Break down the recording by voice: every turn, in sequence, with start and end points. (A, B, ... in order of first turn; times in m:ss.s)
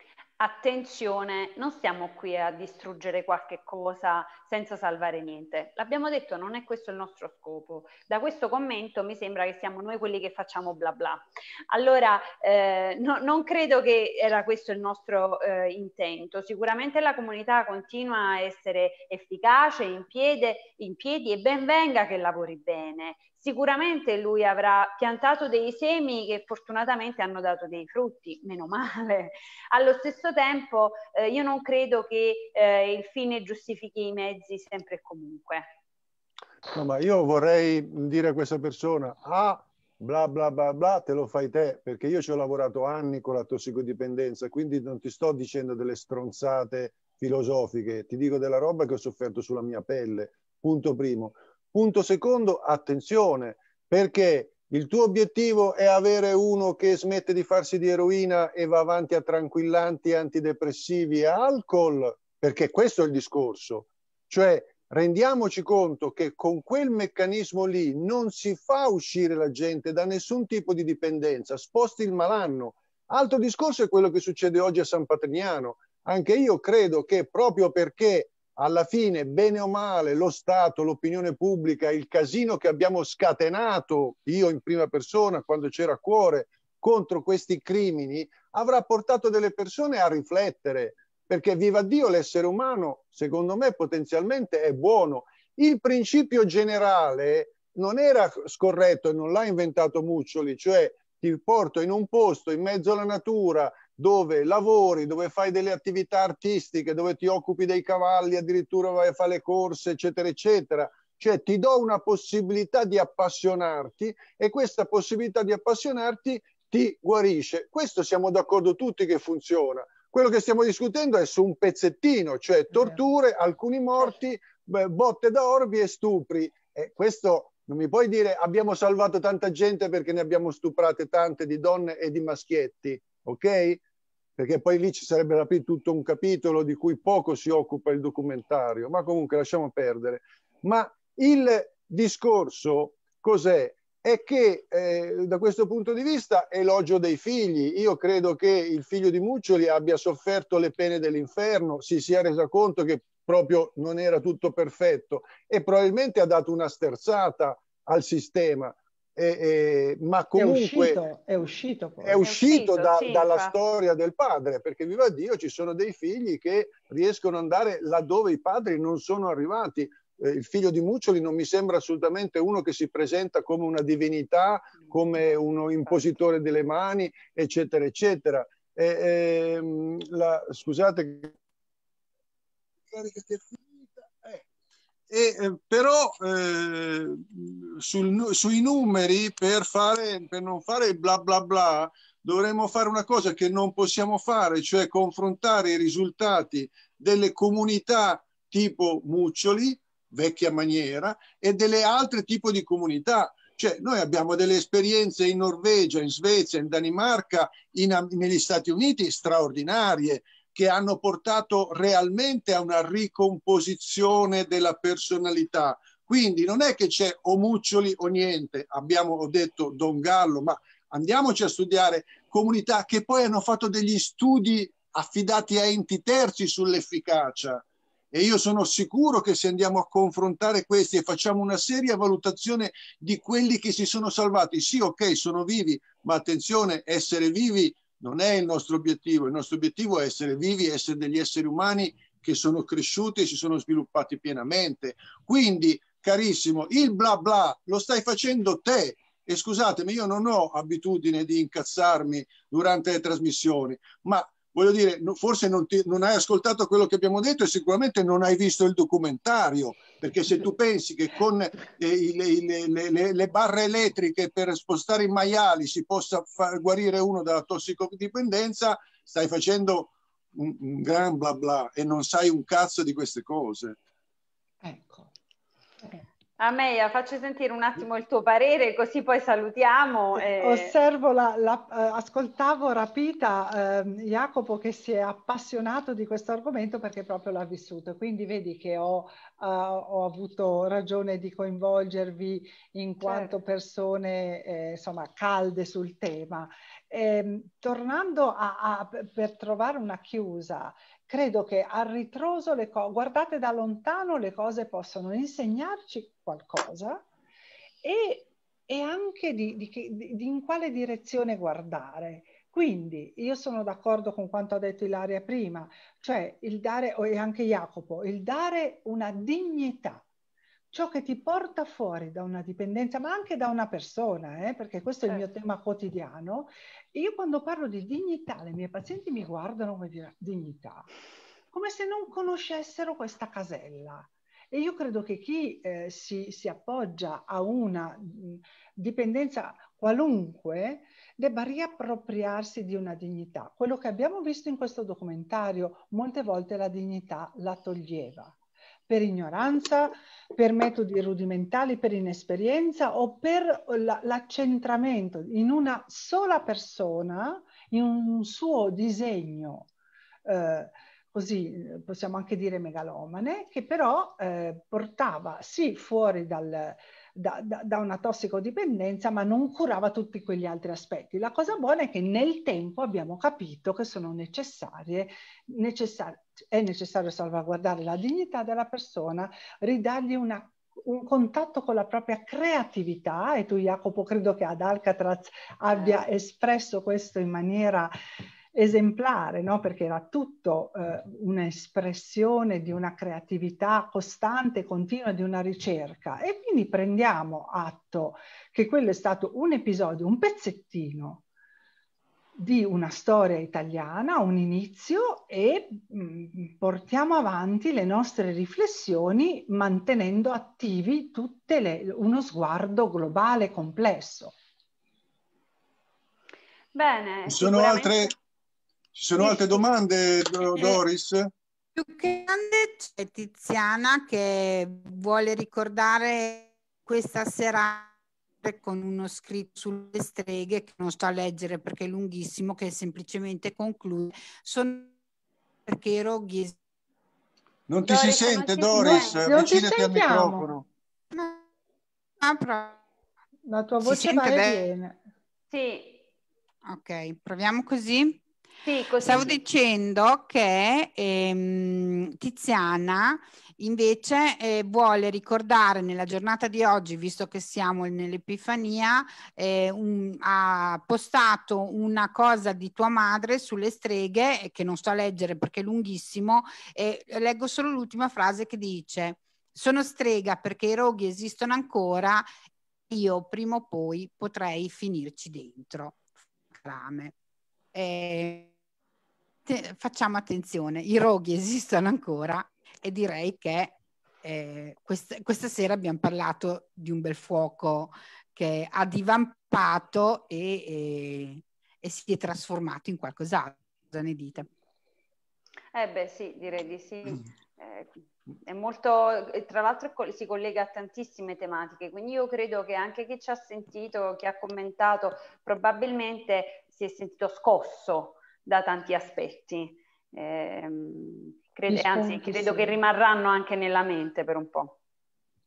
0:00.4-0:35.7 A
0:36.7-2:13.8 B
2:14.4-2:41.0 B
2:40.4-2:42.2 C
2:42.0-3:01.4 B
2:42.2-2:43.6 A
3:02.9-3:04.4 B
3:05.1-4:33.8 B
4:34.6-4:35.1 C
4:36.4-4:40.7 A
4:40.4-5:07.0 C
4:53.0-4:53.4 A
5:07.8-5:20.1 C
5:20.7-5:30.9 C
5:31.5-5:48.4 C
5:48.9-5:59.7 C
6:00.2-6:27.9 C
6:25.7-6:26.0 A
6:28.5-6:41.2 C
6:42.4-6:54.4 C
6:56.7-6:58.1 A
6:57.3-6:58.1 B
6:59.0-7:01.3 B
7:01.8-7:14.9 D
7:15.7-7:16.6 D
7:17.7-7:20.7 B
7:17.8-7:19.3 A
7:18.8-7:20.5 C
7:21.1-7:21.4 D
7:22.2-7:22.8 D
7:23.5-7:25.0 C
7:23.8-7:24.6 D
7:25.5-7:26.0 A
7:26.7-7:28.2 D
7:28.6-7:29.4 A
7:29.0-7:52.3 D
7:52.9-7:57.1 D
7:57.7-7:58.5 D
7:59.5-8:14.5 D
8:15.7-8:34.8 A
8:31.7-8:32.8 C